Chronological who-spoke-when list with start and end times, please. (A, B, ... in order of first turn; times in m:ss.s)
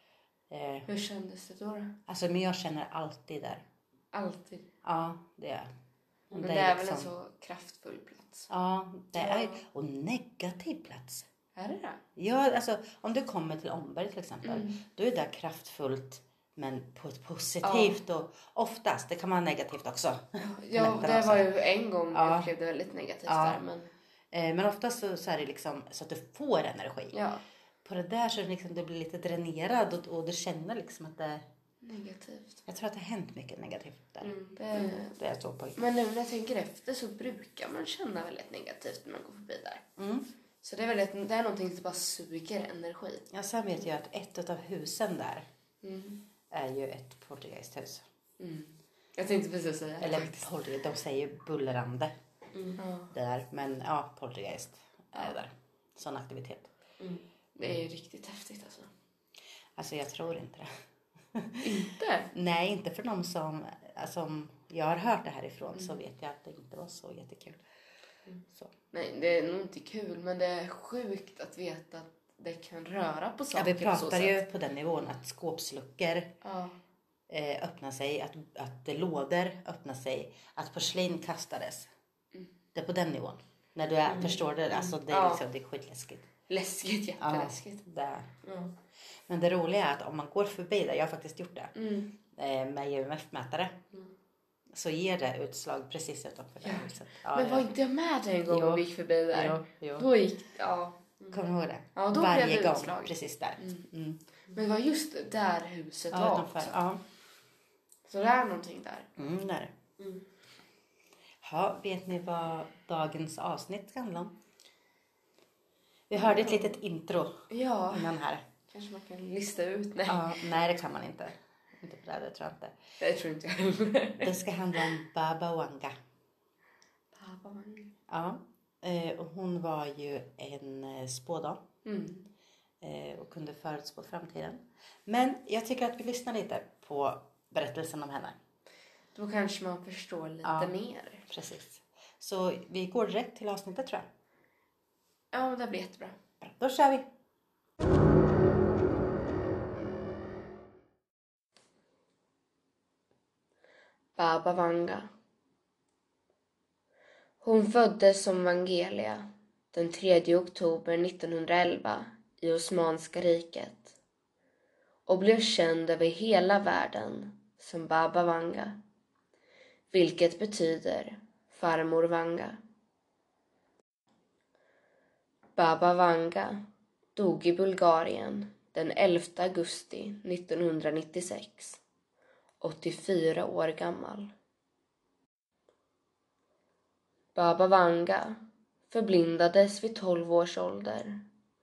0:00.5-0:00.9 A
0:00.9-0:02.0 B
0:02.1-0:03.6 A
0:04.1-0:04.7 B
0:04.8-0:05.7 A
0:06.4-0:07.1 A
0:06.4-0:08.5 B
0:08.5-0:11.2 A
0:09.1-0:09.6 B
0:11.6-0:12.0 B
0:12.2-0:21.5 A
0:14.4-0:14.8 B
0:17.6-0:18.0 B
0:20.4-0:23.9 B
0:22.1-0:22.5 A
0:23.3-0:23.6 A
0:24.3-0:27.1 A
0:27.1-0:27.4 B
0:27.8-0:31.4 A
0:31.8-0:32.6 B
0:32.7-0:34.3 A
0:34.2-0:35.2 B
0:35.1-0:35.8 A
0:35.8-0:39.8 B
0:40.0-0:40.2 A
0:40.6-0:43.3 B
0:43.3-0:45.4 A
0:45.8-0:46.2 B
0:46.5-0:48.0 A
0:48.4-0:50.5 B
0:50.0-0:52.1 A
0:52.6-0:53.1 B
0:53.1-0:56.7 A
0:57.0-0:58.9 B
0:59.8-1:00.7 A
1:01.4-1:01.7 A
1:01.6-1:02.3 B
1:02.3-1:07.6 A
1:08.9-1:14.4 B
1:13.6-1:16.3 A
1:16.4-1:16.8 B
1:17.3-1:21.9 A
1:22.8-1:26.2 A
1:24.1-1:25.4 B
1:26.5-1:27.8 B
1:27.2-1:28.3 A
1:29.3-1:31.7 A
1:31.8-1:32.1 B
1:32.4-1:33.8 A
1:34.7-1:37.7 A
1:36.6-1:41.4 B
1:38.5-1:40.1 A
1:41.3-1:44.2 A
1:41.9-1:43.9 B
1:44.5-1:46.8 B
1:46.1-1:47.0 A
1:48.0-1:49.1 B
1:49.2-1:49.7 A
1:51.4-1:54.3 A
1:56.1-1:57.4 A
1:56.1-1:56.8 B
1:57.5-2:00.4 B
1:57.9-1:58.4 A
2:00.1-2:02.8 A
2:03.0-2:04.4 B
2:04.2-2:05.9 A
2:07.1-2:07.9 B
2:08.1-2:11.6 A
2:11.8-2:12.3 B
2:12.8-2:18.4 A
2:19.1-2:21.3 B
2:20.4-2:20.7 A
2:21.3-2:24.0 A
2:25.3-2:26.2 B
2:26.4-2:27.0 A
2:34.2-2:35.1 B
2:37.4-2:44.0 B
2:45.1-2:48.8 B
2:49.9-2:52.6 B
2:55.6-2:56.6 B
2:57.2-3:01.8 B
3:02.6-3:04.3 B
3:07.4-3:11.2 B